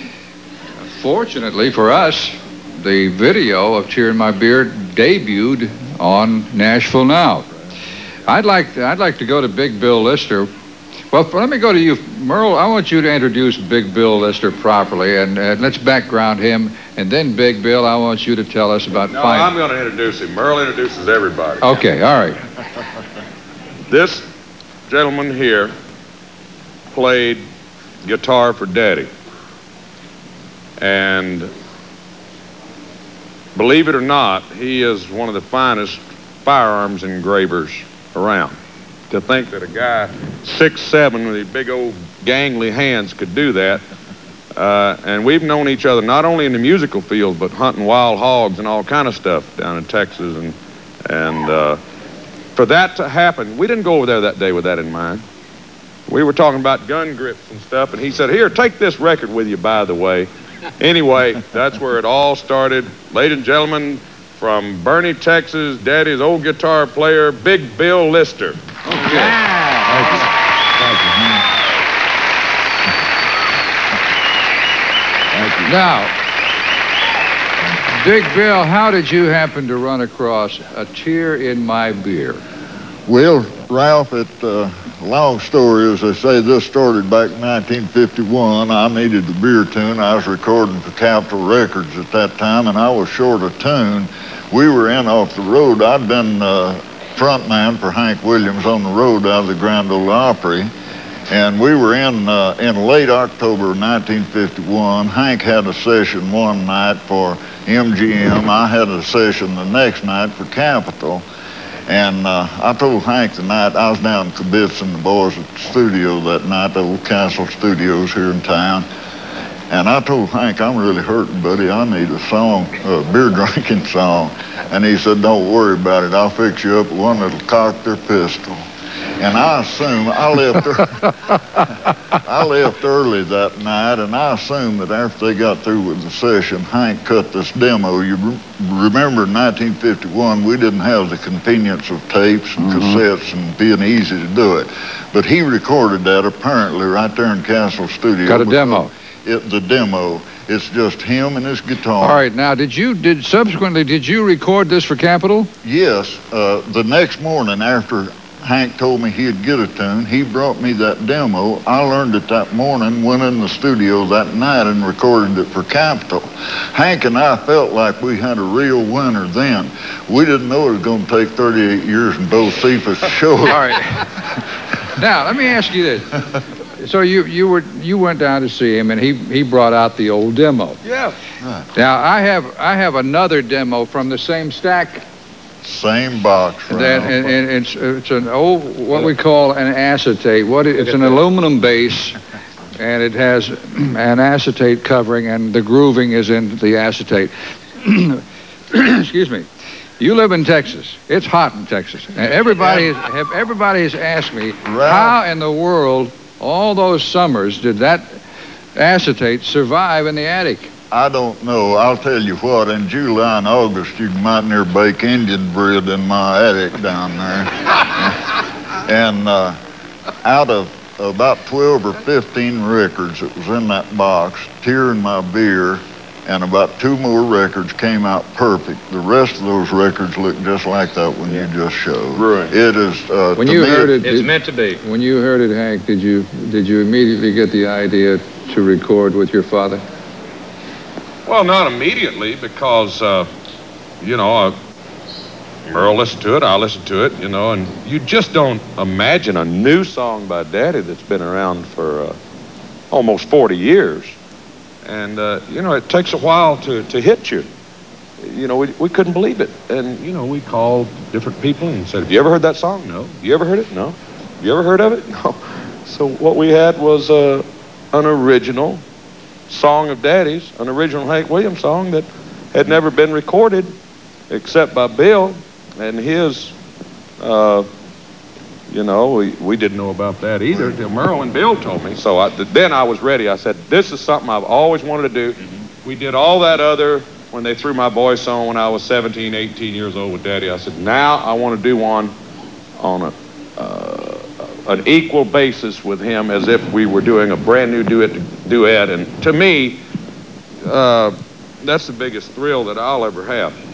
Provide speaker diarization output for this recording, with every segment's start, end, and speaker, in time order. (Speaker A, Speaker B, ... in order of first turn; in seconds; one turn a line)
Speaker A: 0.8-7.5
Speaker A: 8.3-10.5
Speaker A: 11.1-19.5
Speaker B: 19.1-21.8
Speaker A: 21.6-22.4
Speaker B: 23.9-24.2
Speaker B: 24.9-25.7
Speaker B: 26.9-27.4
Speaker B: 28.0-29.1
Speaker B: 30.8-31.5
Speaker B: 33.5-38.6
Speaker B: 39.1-43.8
Speaker B: 44.6-50.6
Speaker B: 51.1-51.8
Speaker B: 52.6-55.2
Speaker B: 56.1-68.8
Speaker A: 68.9-69.5
Speaker C: 70.9-71.4
Speaker C: 75.4-75.7
Speaker A: 75.7-76.1
Speaker A: 77.8-82.4
Speaker C: 83.1-100.7
Speaker C: 101.3-111.2
Speaker C: 111.9-118.8
Speaker C: 119.7-128.6
Speaker C: 129.2-130.9
Speaker C: 132.2-152.2
Speaker A: 142.6-143.0
Speaker A: 148.3-148.9
Speaker A: 152.0-155.5
Speaker C: 155.6-173.7
Speaker A: 173.5-174.3
Speaker A: 174.9-176.2
Speaker A: 176.8-180.8
Speaker B: 180.8-181.2
Speaker C: 181.4-181.7
Speaker A: 181.8-185.0
Speaker C: 185.6-187.3
Speaker A: 186.7-192.2
Speaker A: 192.8-199.5
Speaker A: 200.0-208.2
Speaker C: 204.6-205.2
Speaker A: 208.8-210.7
Speaker C: 210.9-219.6
Speaker C: 220.2-234.0
Speaker B: 232.2-232.6
Speaker A: 233.4-239.8
Speaker B: 234.0-234.8
Speaker B: 241.3-243.3
Speaker B: 244.0-244.6
Speaker B: 245.7-252.2
Speaker B: 252.9-254.2
Speaker B: 254.8-257.5
Speaker B: 258.2-268.8
Speaker B: 269.5-273.7
Speaker B: 274.3-276.6
Speaker B: 277.2-277.7
Speaker B: 278.7-292.1
Speaker B: 292.8-299.8
Speaker B: 300.6-303.6